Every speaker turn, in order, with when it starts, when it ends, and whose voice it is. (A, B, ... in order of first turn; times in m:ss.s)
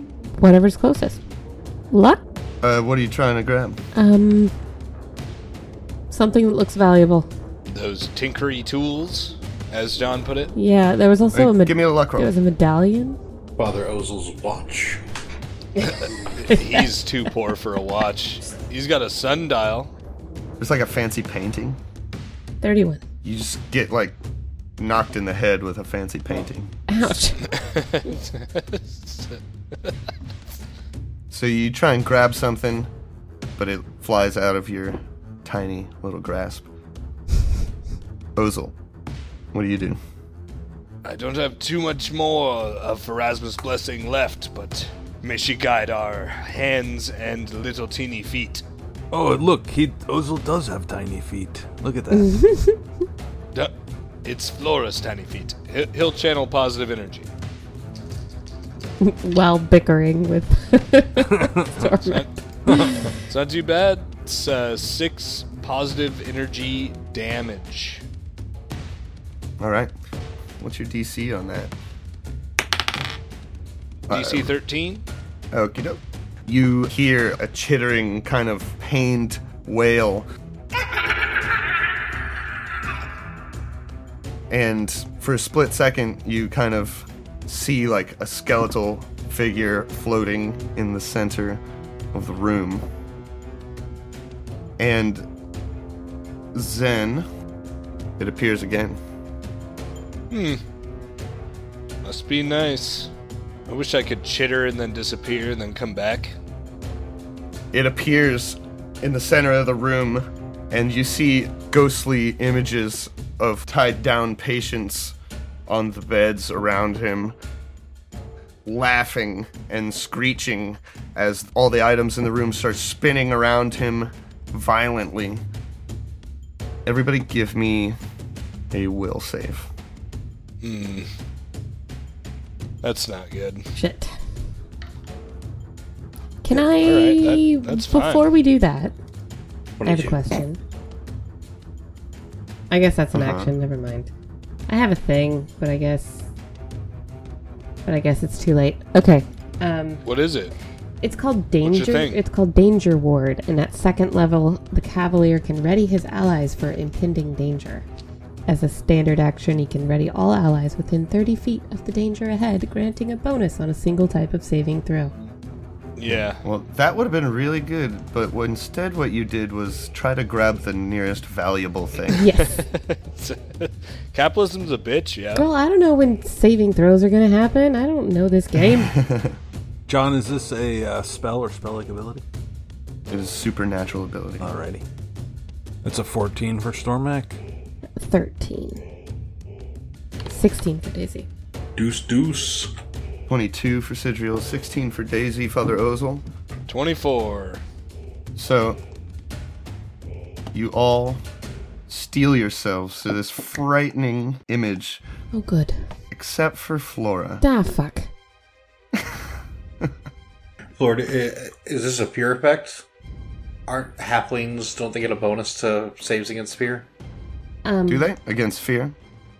0:00.4-0:01.2 A
0:01.9-0:02.2 A
0:02.6-0:03.8 B
0:03.9-0:04.5 A
0:06.1-0:07.3 A
0:07.7-0:10.5 C
0:10.5-0:13.2 A
0:11.3-0:12.3 B
0:13.6-0:15.0 D
0:15.8-0:16.9 A
0:16.0-0:19.9 C
0:20.6-0:21.8 B
0:22.6-0:23.0 A
0:23.2-0:24.2 B
0:24.8-0:26.7 B
0:26.9-0:27.5 A
0:27.4-0:29.9 C
0:31.3-0:32.9 B
0:33.6-0:36.7 B
0:38.4-0:38.7 B
0:39.5-0:40.0 B
0:41.0-0:48.6 C
0:49.1-0:52.3 E
0:52.1-0:52.8 A
0:54.2-0:57.3 C
0:59.0-1:03.1 A
1:01.2-1:01.8 E
1:02.0-1:02.3 C
1:02.7-1:03.0 E
1:03.2-1:08.0 C
1:09.6-1:09.9 B
1:10.6-1:11.7 B
1:14.1-1:14.5 B
1:14.1-1:15.0 C
1:15.5-1:20.3 B
1:24.5-1:31.6 B
1:32.1-1:32.9 B
1:34.8-1:35.3 B
1:36.5-1:37.3 B
1:38.2-1:39.0 B
1:40.3-1:40.6 C
1:42.0-1:43.1 C
1:43.7-1:46.3 C
1:47.7-1:55.1 B
1:55.7-1:57.4 B
1:58.6-2:05.4 B
2:06.8-2:08.0 B
2:08.7-2:09.7 B
2:10.6-2:11.1 C
2:12.8-2:13.7 C
2:13.7-2:14.1 A
2:16.4-2:18.9 A
2:16.8-2:18.3 C
2:19.8-2:20.2 D
2:19.8-2:20.6 A
2:22.7-2:24.1 A
2:23.1-2:23.5 B
2:24.7-2:26.3 A
2:27.8-2:30.0 A
2:30.0-2:30.5 C
2:31.0-2:37.8 A
2:31.6-2:32.2 C
2:38.5-2:45.1 A
2:46.0-2:46.4 C
2:46.4-2:52.2 B
2:52.1-2:52.6 A
2:52.2-2:55.5 C
2:55.3-2:59.0 A
2:58.7-2:59.4 B
2:59.9-3:02.2 E
3:03.1-3:04.5 B
3:04.4-3:04.8 E
3:05.8-3:07.4 E
3:08.0-3:08.8 A
3:10.2-3:11.3 A
3:11.8-3:12.7 D
3:13.3-3:16.2 B
3:16.7-3:17.6 C
3:18.4-3:18.8 B
3:20.5-3:21.2 B
3:21.9-3:25.0 B
3:25.3-3:25.9 A
3:26.1-3:27.4 B
3:27.4-3:28.1 A
3:29.0-3:29.2 B
3:30.8-3:32.8 D
3:33.7-3:36.9 D
3:37.6-3:38.1 A
3:37.9-3:38.9 B